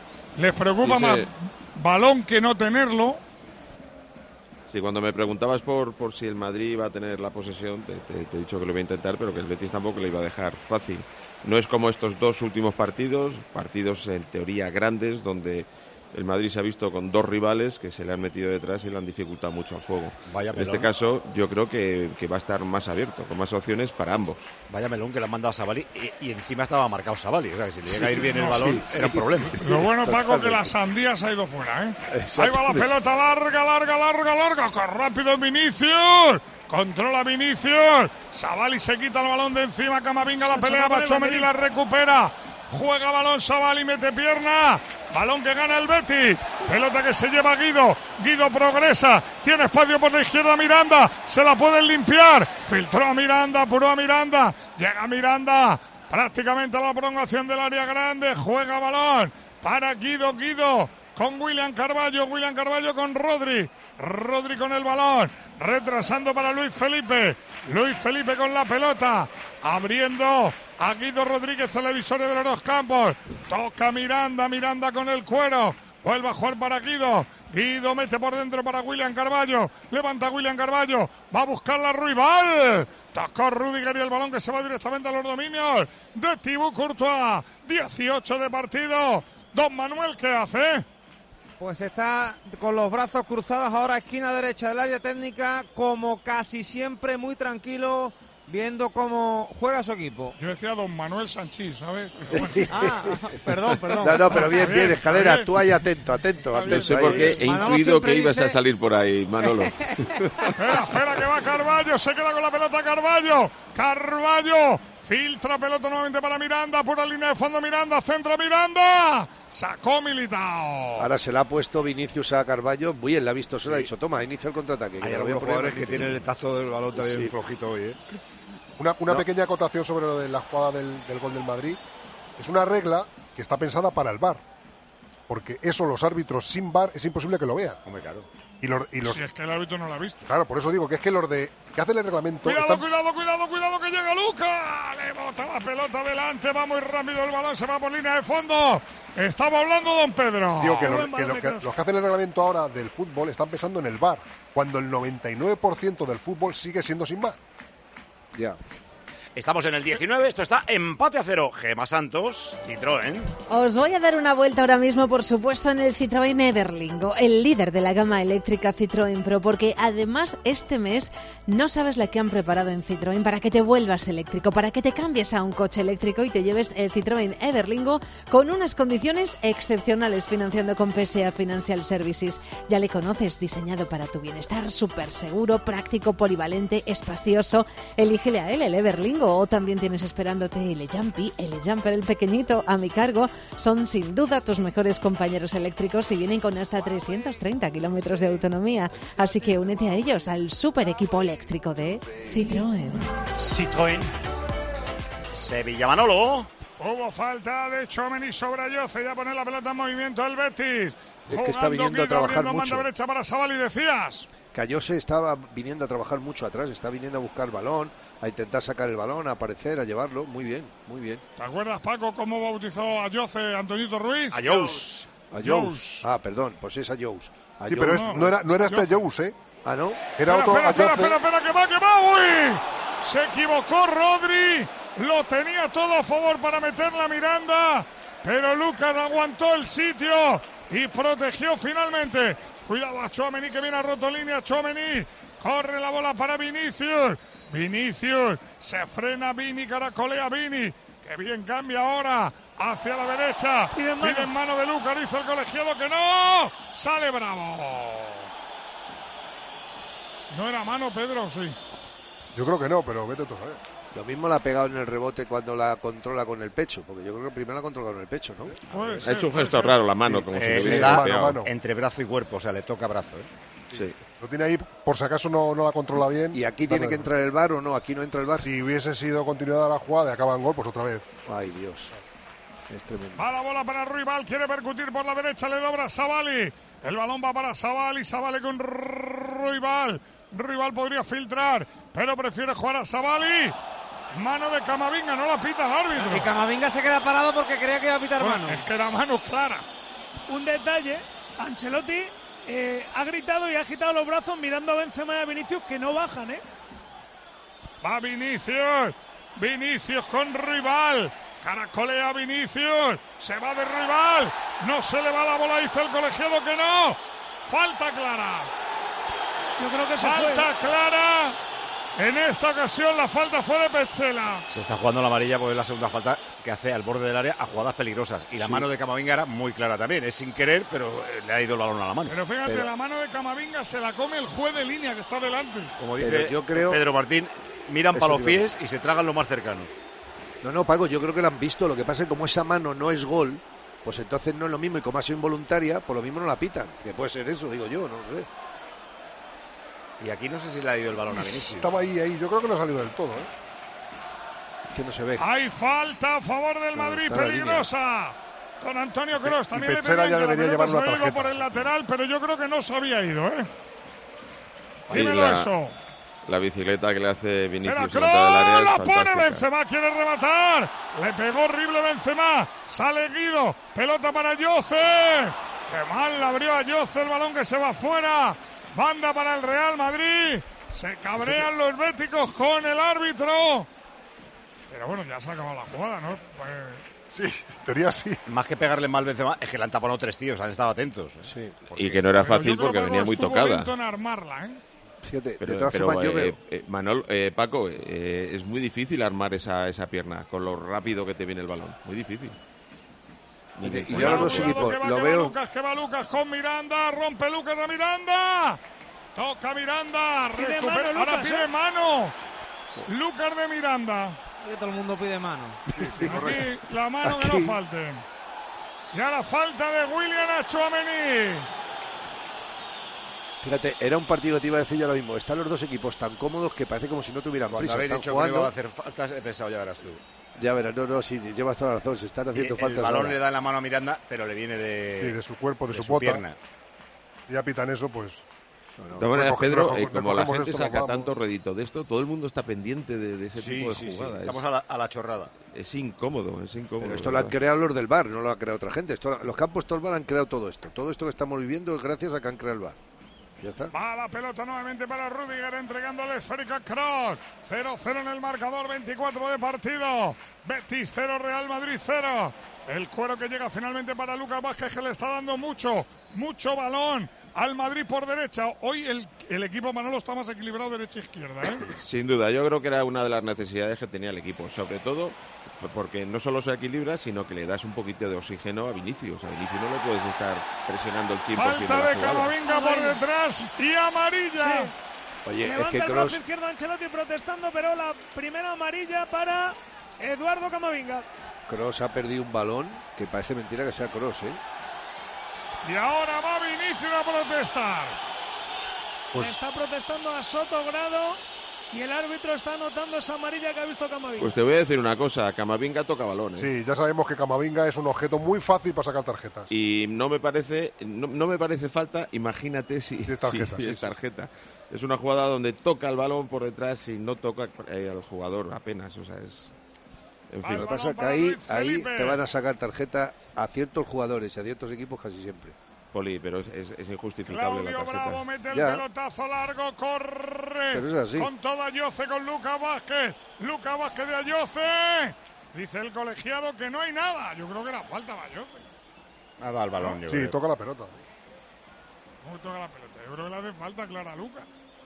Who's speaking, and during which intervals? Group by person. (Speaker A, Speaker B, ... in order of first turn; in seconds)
Speaker A: 0.4-3.2, 28.2-28.6, 29.6-90.8, 100.4-102.7, 104.3-105.5, 106.5-107.3, 110.6-121.1, 139.1-140.2, 142.4-150.9, 206.8-214.3, 221.4-224.8, 225.4-226.1, 227.9-229.0, 230.2-258.3, 260.3-261.6, 268.7-269.8, 283.1-293.5, 294.1-296.3, 298.2-299.6, 307.8-318.5, 320.0-321.4, 322.0-324.4, 332.1-335.7, 355.2-363.5, 364.9-365.7, 367.6-383.7, 384.7-386.8, 392.1-394.6, 403.9-408.6, 409.1-412.1, 412.9-414.2, 416.0-418.0, 418.9-421.5, 453.7-471.7, 481.3-484.7, 495.6-498.0, 520.4-522.2, 527.3-538.6, 542.2-544.5
Speaker B: 0.8-1.3, 4.7-24.5, 106.6-110.5, 269.0-271.4, 273.7-273.9, 364.9-365.5, 366.2-369.4, 391.8-393.7, 395.4-402.4, 403.6-404.6, 439.0-444.4, 445.5-447.4, 471.8-482.4, 504.2-506.5, 509.5-519.5, 520.3-520.7, 525.9-528.2
Speaker C: 20.3-20.9, 24.7-29.6, 123.6-123.9, 125.0-128.0, 137.8-138.3, 159.3-163.3, 205.3-206.5, 224.3-225.1, 268.7-269.0, 270.3-273.3, 324.5-332.1, 335.8-339.7, 350.0-351.9, 388.3-392.0, 427.5-430.0, 432.3-436.4, 443.4-445.3, 539.4-540.4
Speaker D: 27.9-30.7, 32.1-32.9, 102.3-103.1, 104.0-107.4, 121.0-126.2, 126.9-127.3, 158.3-158.6, 211.3-212.9, 214.5-221.2, 225.3-228.4, 229.6-230.2, 263.9-268.6, 276.3-278.5, 281.2-281.9, 282.7-283.2, 328.4-328.6, 332.4-332.7, 336.0-336.8, 337.9-338.4, 340.4-348.3, 354.7-355.2, 356.7-357.7, 381.2-381.4, 391.2-391.5, 395.0-396.3, 403.6-405.3, 415.8-416.2, 417.0-417.6, 423.4-428.5, 430.4-433.2, 438.8-439.1, 446.8-452.8, 453.4-453.7, 485.2-486.2, 491.5-494.4, 520.5-525.5, 528.5-528.8, 530.7-531.3
Speaker E: 40.4-41.5, 150.8-151.7, 253.7-254.3, 300.3-306.4, 319.6-320.5, 410.3-411.5, 482.4-483.0, 484.4-484.7, 485.4-491.1, 499.1-504.3
Speaker F: 91.6-100.3, 102.7-104.9, 107.4-108.6, 295.9-298.6, 414.4-415.6
Speaker G: 128.8-131.8, 132.4-134.4, 135.3-137.8, 138.6-139.2, 140.2-142.8, 150.6-157.4, 227.7-229.4, 230.2-231.2, 262.3-263.6, 270.0-271.5, 274.2-277.1, 278.4-281.1, 351.1-353.3, 359.2-361.7, 387.1-388.2, 415.8-416.5, 435.0-436.2, 437.3-438.2, 439.0-441.1, 506.4-509.5, 513.0-513.9, 539.8-541.0
Speaker H: 163.5-203.1